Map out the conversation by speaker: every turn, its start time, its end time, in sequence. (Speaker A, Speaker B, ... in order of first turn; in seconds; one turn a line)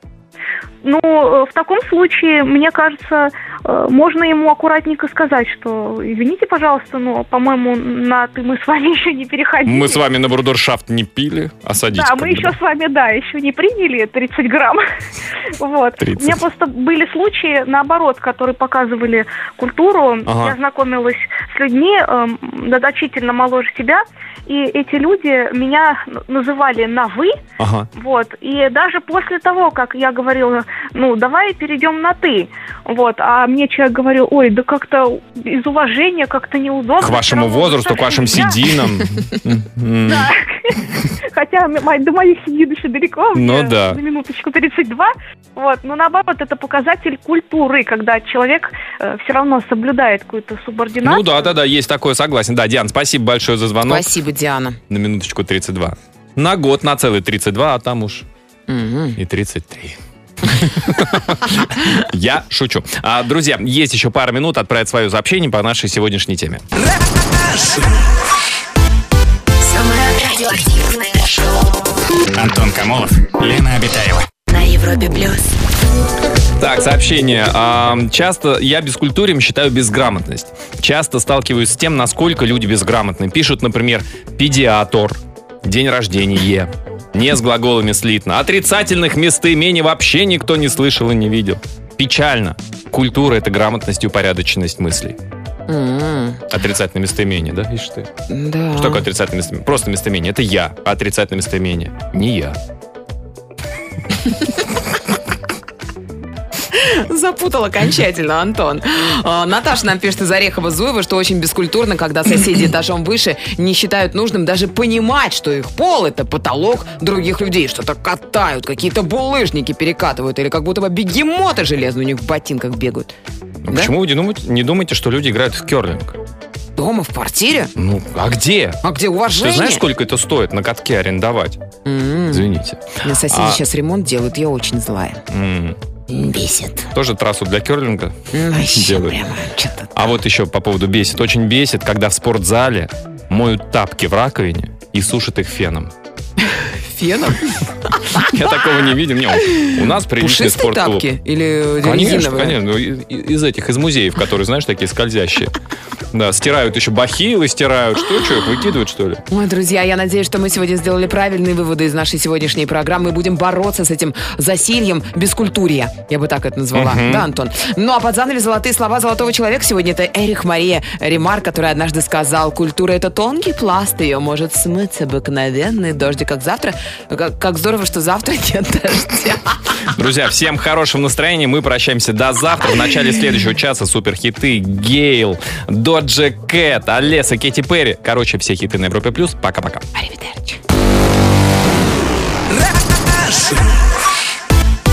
Speaker A: 0.8-10.0
Speaker B: 9.7-12.5
Speaker A: 11.9-14.8
Speaker A: 15.6-27.4
Speaker B: 16.0-16.4
Speaker B: 20.2-20.5
Speaker B: 27.6-27.9
Speaker A: 27.9-38.8
Speaker B: 37.0-40.3
Speaker A: 40.1-51.5
Speaker B: 43.3-44.0
Speaker B: 51.0-54.1
Speaker C: 53.8-54.8
Speaker B: 54.9-58.2
Speaker C: 58.7-59.2
Speaker B: 59.2-66.6
Speaker D: 67.1-68.1
Speaker D: 69.6-72.0
Speaker E: 72.3-74.3
Speaker D: 74.5-75.5
Speaker B: 76.6-95.2
Speaker C: 95.7-96.4
Speaker B: 96.5-98.1
Speaker C: 98.3-99.1
Speaker B: 98.7-102.6
Speaker C: 106.7-123.1
Speaker B: 123.7-126.2
Speaker C: 126.8-127.7
Speaker B: 127.8-128.8
Speaker C: 128.8-129.8
Speaker B: 129.4-131.6
Speaker C: 131.8-132.5
Speaker B: 132.3-133.6
Speaker C: 133.0-135.2
Speaker B: 135.3-135.8
Speaker C: 136.1-136.9
Speaker B: 136.9-138.2
Speaker C: 138.3-140.0
Speaker B: 138.7-139.2
Speaker B: 139.9-145.9
Speaker C: 146.4-148.3
Speaker B: 148.1-151.1
Speaker C: 149.4-152.6
Speaker B: 151.8-155.5
Speaker B: 156.1-159.2
Speaker C: 159.3-179.5
Speaker B: 166.7-167.3
Speaker B: 179.9-189.8
Speaker C: 189.9-190.6
Speaker D: 193.1-193.7